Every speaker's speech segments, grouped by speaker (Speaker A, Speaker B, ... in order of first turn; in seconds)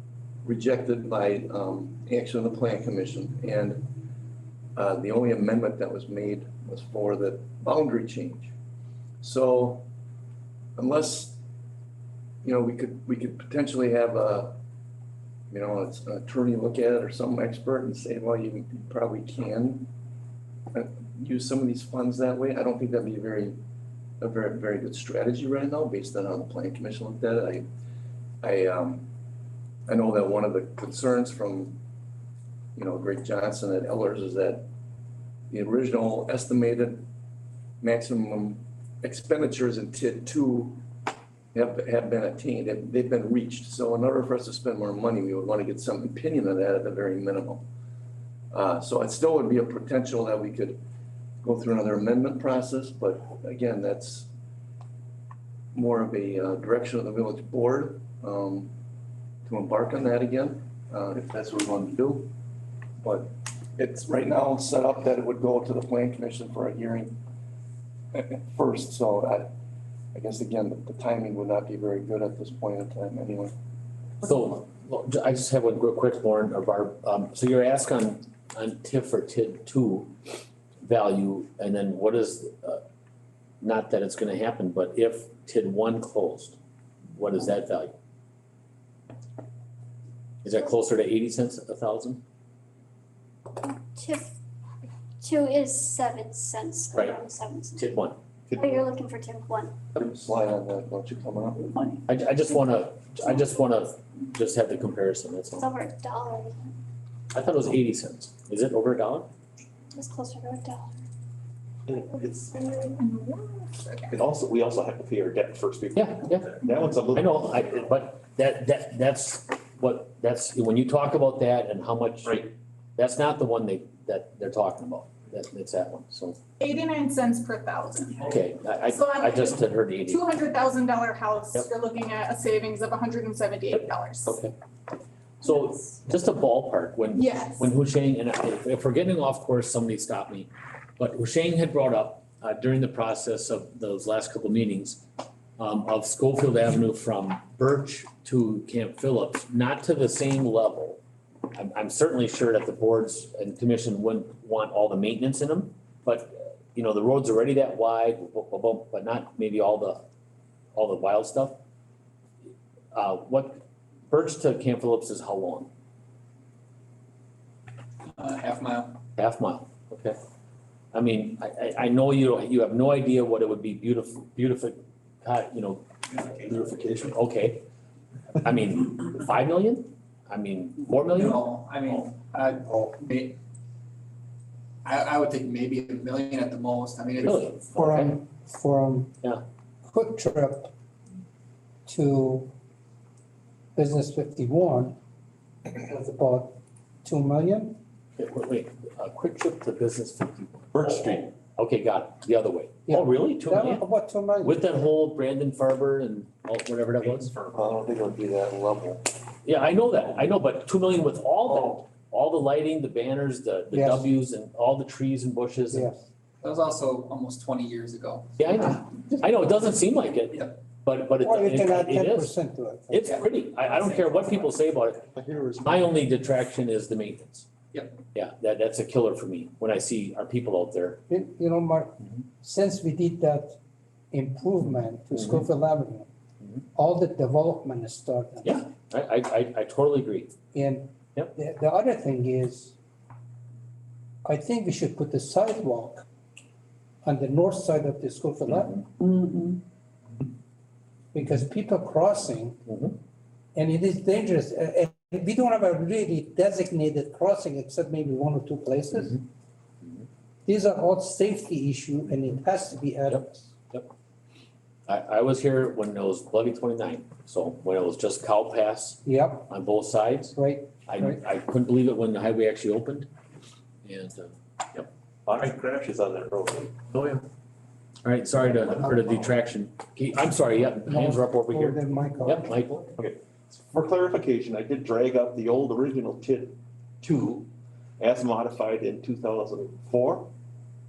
Speaker A: 0.4-3.9, 4.8-8.5, 9.2-9.8, 10.8-11.4, 12.4-14.6, 15.5-19.9, 20.7-23.6, 24.2-27.6, 28.4-29.1, 29.9-31.8, 32.8-34.6, 35.5-37.1, 37.8-40.8, 41.5-47.6, 48.5-50.8, 51.4-54.3, 55.7-58.7, 59.5-62.3, 63.0-67.2, 68.1-69.5, 70.1-73.5, 100.0-101.7, 207.5-209.0
Speaker B: 74.2-80.1, 80.8-82.8, 83.6-86.6, 87.1-87.9, 90.4-92.2, 97.7-98.2, 102.1-105.7, 107.3-109.3, 115.9-126.4, 128.2-130.2, 133.7-134.5, 135.4-145.0, 145.6-151.0, 151.5-160.0, 160.7-161.6, 162.9-165.7, 169.2-170.2, 170.9-175.8, 176.6-177.6, 178.4-181.4, 187.2-188.1, 198.2-203.8, 204.4-207.3, 209.4-215.9, 218.4-222.3, 222.9-225.1, 225.6-227.5, 228.1-231.0, 235.1-235.4, 238.4-240.3, 248.5-248.8, 252.7-252.9, 263.1-263.9, 264.9-273.1, 273.8-274.9, 276.9-277.2, 278.0-282.9
Speaker C: 93.6-94.3, 95.2-97.8, 98.5-99.7, 105.6-106.6, 109.9-110.9, 111.9-112.9
Speaker D: 98.5-98.8, 111.9-112.5, 114.1-117.5, 176.4-177.1, 200.7-201.3, 207.0-207.7, 225.1-225.9, 275.2-276.7, 283.0-287.5, 288.0-290.3
Speaker E: 113.0-114.2, 126.6-134.4, 137.1-137.7
Speaker F: 168.1-169.0, 181.1-183.3, 184.8-187.6, 216.4-218.5, 223.0-224.4
Speaker G: 187.7-189.1, 189.9-190.7, 191.8-192.5, 193.7-194.9, 195.7-197.8, 202.9-204.7, 213.7-214.1, 215.7-216.0, 221.2-223.1, 231.1-233.6, 234.1-236.1, 236.7-238.6, 240.5-242.7, 244.2-246.0, 247.0-248.8, 251.1-252.6, 253.5-259.2, 260.4-263.5, 269.1-269.5, 270.3-271.2, 278.7-279.0, 280.8-282.6